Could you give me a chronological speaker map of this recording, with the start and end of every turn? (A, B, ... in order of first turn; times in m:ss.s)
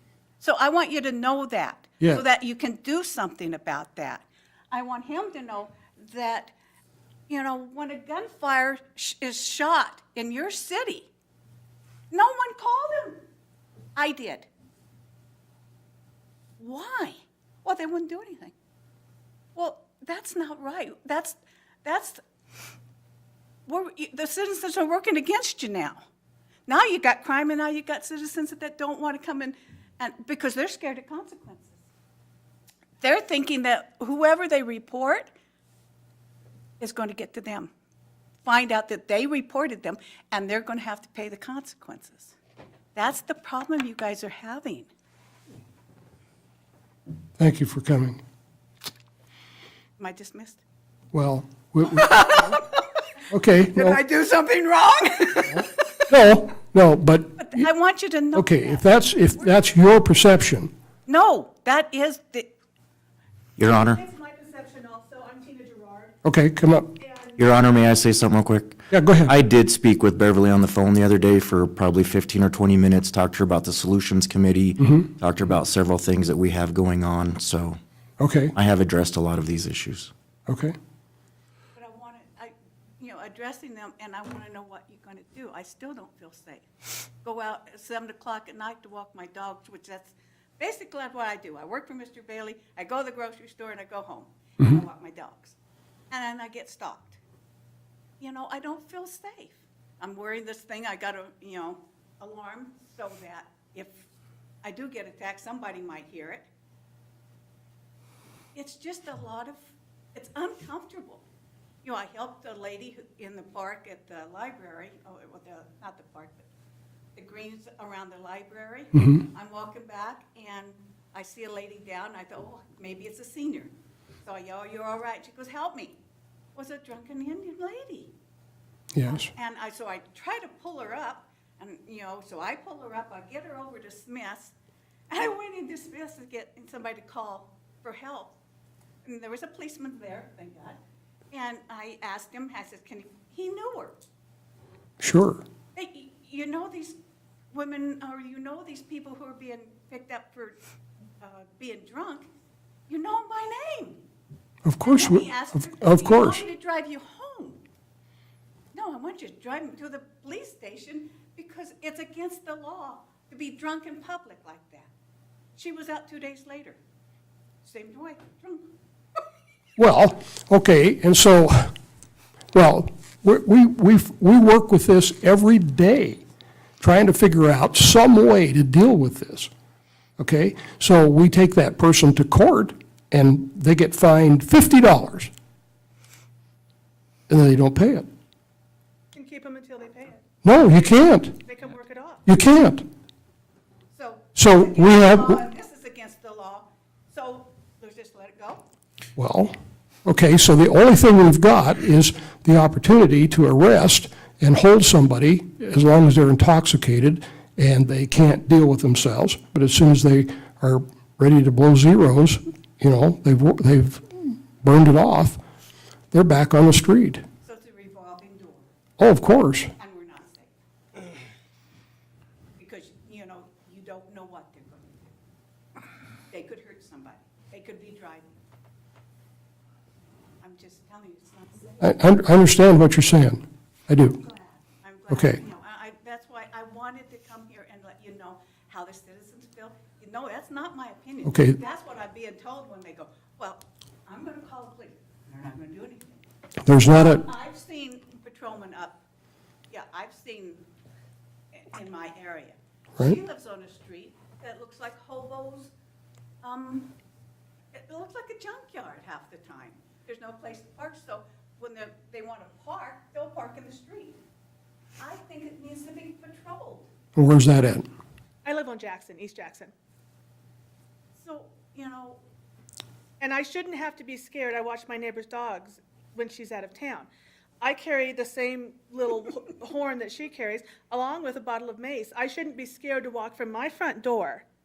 0:00.4-0:06.5 A
0:07.3-0:11.1 A
0:12.1-0:13.2 A
0:14.0-0:14.5 A
0:16.6-0:18.5 A
0:19.5-0:22.2 A
0:23.6-0:26.0 A
0:26.7-0:31.8 A
0:33.0-0:35.3 A
0:36.8-0:37.7 A
0:38.4-0:42.4 A
0:42.9-0:44.9 A
0:47.4-0:48.2 B
0:50.0-0:50.6 A
0:51.1-0:52.6 B
0:51.9-0:52.8 A
0:53.3-0:54.0 B
0:53.7-0:56.1 A
0:56.1-0:57.6 B
0:57.4-0:59.6 A
0:58.3-1:00.7 B
1:01.0-1:02.5 A
1:03.6-1:04.0 C
1:03.8-1:06.1 D
1:06.2-1:06.9 B
1:07.0-1:07.4 D
1:07.4-1:17.8 C
1:08.9-1:09.3 B
1:14.8-1:15.1 B
1:18.2-1:18.5 B
1:18.5-1:20.1 C
1:20.5-1:20.7 B
1:21.7-1:26.7 A
1:27.2-1:35.6 A
1:36.1-1:37.2 A
1:38.2-1:44.1 A
1:44.6-1:46.5 A
1:48.5-1:49.6 A
1:50.1-1:51.2 A
1:51.8-1:56.5 A
1:57.2-2:03.7 A
1:58.9-1:59.2 B
2:04.2-2:06.0 A
2:06.5-2:08.1 A
2:08.9-2:09.3 B
2:09.0-2:14.5 A
2:15.1-2:18.4 A
2:19.0-2:20.8 A
2:21.3-2:24.0 A
2:25.0-2:25.4 B
2:25.7-2:27.0 A
2:27.5-2:30.6 A
2:31.2-2:32.3 A
2:32.9-2:34.0 A
2:34.6-2:35.3 B
2:34.8-2:37.6 A
2:35.8-2:36.4 B
2:38.7-2:44.9 A
2:45.6-2:46.8 A
2:47.6-2:48.7 A
2:49.8-2:51.7 B
2:52.5-2:56.2 B
2:56.8-2:59.5 B
3:00.2-3:05.3 B
3:07.3-3:08.1 B
3:09.1-3:10.2 D
3:10.4-3:11.4 B
3:11.4-3:12.2 D
3:12.2-3:12.8 B
3:13.9-3:18.6 A
3:14.4-3:15.4 B
3:19.2-3:19.5 B
3:20.0-3:35.4 B
3:36.1-3:37.2 B
3:37.4-3:38.7 A
3:39.0-3:39.7 B
3:39.8-3:40.5 A
3:42.6-3:45.1 A
3:46.3-3:48.3 A
3:50.4-3:51.9 A
3:51.8-3:54.2 B
3:54.2-4:06.2 A
3:55.1-3:55.4 B
4:01.2-4:01.6 B
4:06.6-4:07.2 B
4:06.8-4:09.0 A
4:09.7-4:10.6 A
4:11.5-4:15.7 A
4:16.4-4:16.9 A
4:17.7-4:24.2 A
4:25.0-4:26.9 A
4:27.2-4:27.9 B
4:28.4-4:29.7 D
4:31.2-4:32.2 A
4:33.2-4:37.1 D
4:37.6-4:44.4 D